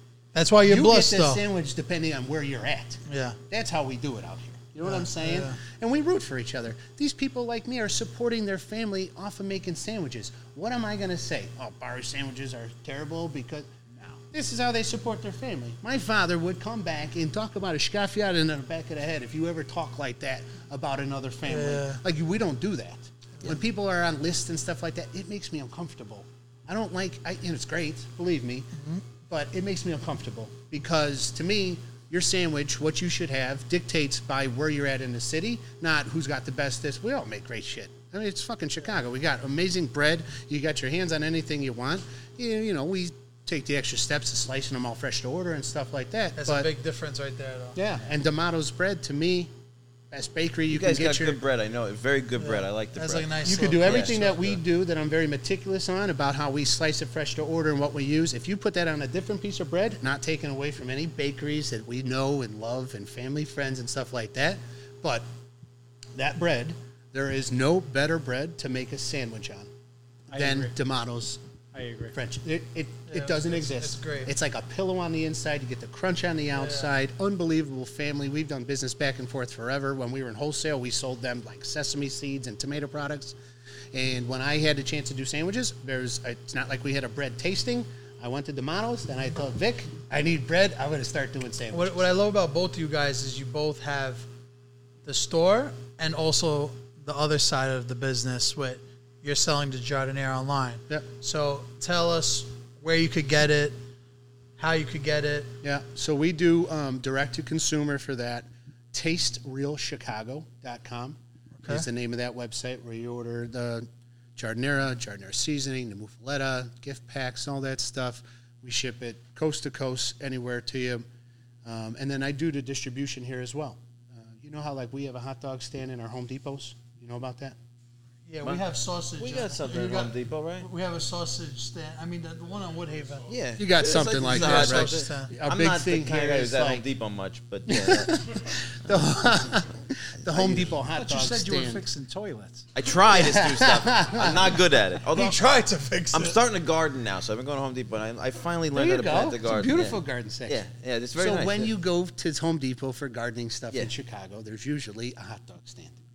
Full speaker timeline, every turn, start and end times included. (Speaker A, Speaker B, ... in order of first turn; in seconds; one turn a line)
Speaker A: 0.3-1.4
Speaker B: 0.7-13.7
Speaker A: 3.0-3.4
Speaker A: 4.8-5.6
Speaker C: 13.9-14.2
Speaker B: 14.3-28.7
Speaker A: 21.5-22.0
Speaker A: 28.8-29.0
Speaker B: 29.2-46.7
Speaker A: 46.4-47.8
Speaker B: 47.7-49.5
Speaker B: 50.1-51.4
Speaker D: 50.7-54.6
Speaker A: 52.4-54.2
Speaker B: 53.4-65.2
Speaker B: 66.1-69.7
Speaker C: 70.3-70.7
Speaker B: 70.3-71.4
Speaker C: 71.7-72.2
Speaker B: 72.1-83.3
Speaker A: 73.1-74.3
Speaker A: 76.5-76.9
Speaker B: 83.9-92.0
Speaker A: 91.7-94.2
Speaker A: 95.0-103.8
Speaker A: 104.6-105.5
Speaker B: 105.6-121.0
Speaker A: 111.6-111.8
Speaker B: 121.6-127.5
Speaker A: 128.3-133.3
Speaker D: 129.2-130.7
Speaker D: 133.3-138.1
Speaker B: 133.6-136.8
Speaker A: 134.2-135.3
Speaker B: 137.7-141.8
Speaker C: 140.9-142.7
Speaker D: 142.7-145.4
Speaker B: 143.1-144.6
Speaker A: 145.1-146.4
Speaker D: 146.1-151.7
Speaker B: 148.7-150.6
Speaker B: 151.2-156.0